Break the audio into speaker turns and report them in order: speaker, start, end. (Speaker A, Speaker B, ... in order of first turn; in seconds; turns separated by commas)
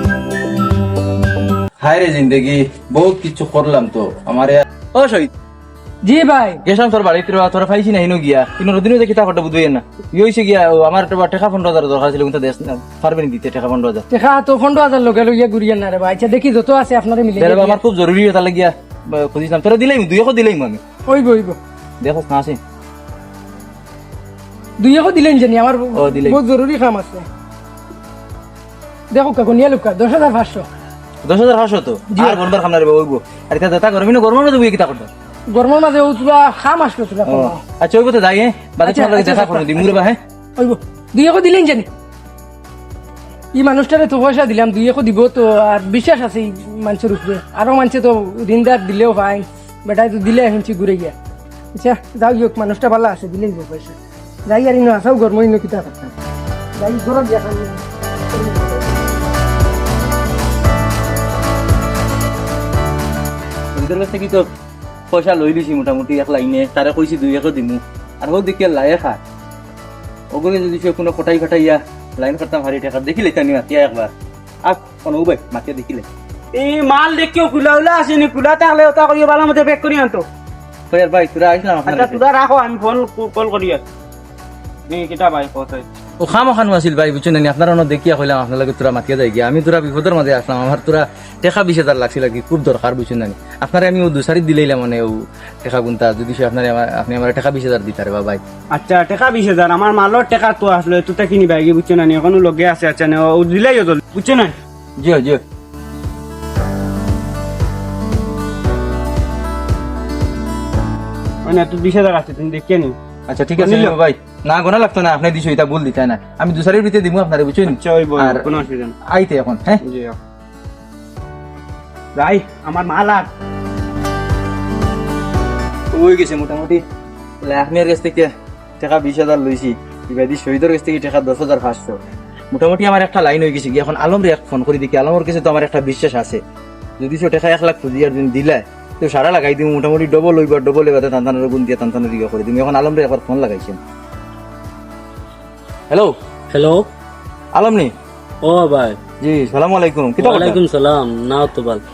Speaker A: 1.8-5.3, Speaker B: 6.0-6.6, Speaker A: 6.6-14.0, Speaker B: 14.1-17.8, Speaker A: 17.4-20.8, Speaker B: 21.1-21.6, Speaker A: 22.0-22.6, Speaker B: 24.8-27.2, Speaker A: 25.9-26.4, Speaker B: 29.1-30.7, Speaker A: 31.2-35.1, Speaker B: 35.5-37.6, Speaker A: 37.2-40.2, Speaker B: 38.8-39.9, Speaker B: 40.6-41.9, Speaker B: 43.5-51.1, Speaker B: 51.7-56.1, Speaker B: 56.8-58.8, Speaker A: 63.7-64.5, Speaker A: 65.1-69.2, Speaker A: 70.3-74.1, Speaker A: 74.6-76.1, Speaker C: 76.5-80.2, Speaker A: 80.9-82.2, Speaker C: 81.9-83.8, Speaker C: 84.9-85.8, Speaker A: 86.2-98.4, Speaker C: 98.7-104.5, Speaker A: 105.0-105.4, Speaker C: 111.4-113.0, Speaker A: 113.3-118.5, Speaker C: 113.6-114.0, Speaker C: 117.7-118.9, Speaker A: 119.1-119.8, Speaker C: 119.8-120.1, Speaker C: 122.2-123.3, Speaker A: 125.9-126.8, Speaker A: 127.4-132.0, Speaker A: 132.5-136.4, Speaker A: 137.0-143.8, Speaker D: 146.5-146.9, Speaker A: 147.5-147.9, Speaker D: 148.4-149.0, Speaker A: 149.2-150.6, Speaker D: 150.2-151.8